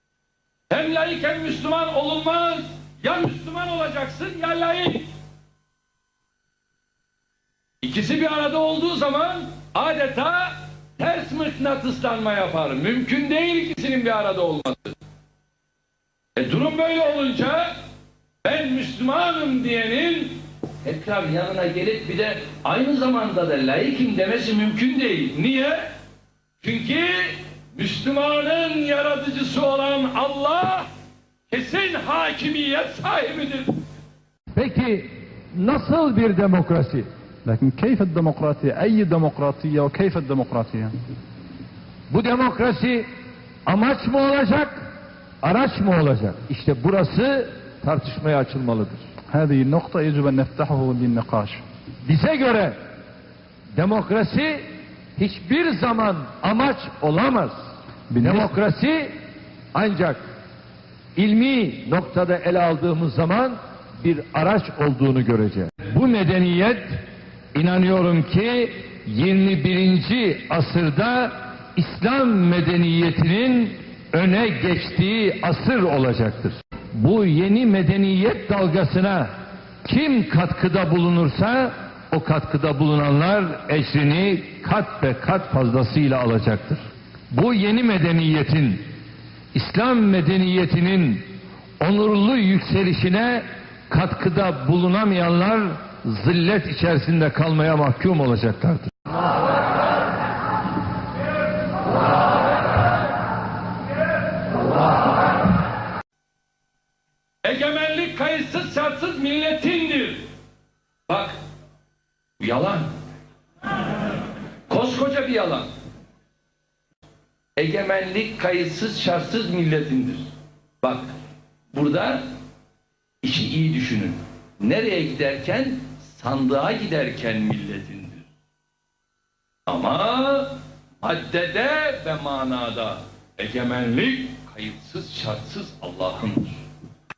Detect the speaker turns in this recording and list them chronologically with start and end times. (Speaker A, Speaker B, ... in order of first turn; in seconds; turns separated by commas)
Speaker A: 0.7-5.1, Speaker A: 7.8-14.9, Speaker A: 16.4-17.7, Speaker A: 18.4-25.8, Speaker A: 26.6-30.9, Speaker A: 31.5-33.8, Speaker B: 34.5-37.1, Speaker C: 37.4-40.9, Speaker B: 42.1-43.1, Speaker B: 43.7-44.9, Speaker B: 45.4-49.0, Speaker C: 49.3-51.6, Speaker B: 52.0-52.8, Speaker B: 53.8-54.6, Speaker B: 55.2-57.6, Speaker C: 58.1-58.5, Speaker B: 58.2-59.1, Speaker B: 59.7-60.2, Speaker B: 61.1-67.0, Speaker B: 67.5-79.3, Speaker B: 79.8-86.8, Speaker B: 87.3-88.9, Speaker B: 89.5-91.3, Speaker B: 91.8-98.9, Speaker A: 107.4-110.2, Speaker A: 111.1-111.3, Speaker A: 112.4-112.9, Speaker A: 114.7-115.7, Speaker A: 117.6-120.2, Speaker A: 120.8-121.1, Speaker A: 121.7-122.2, Speaker A: 123.2-128.3, Speaker A: 129.7-136.6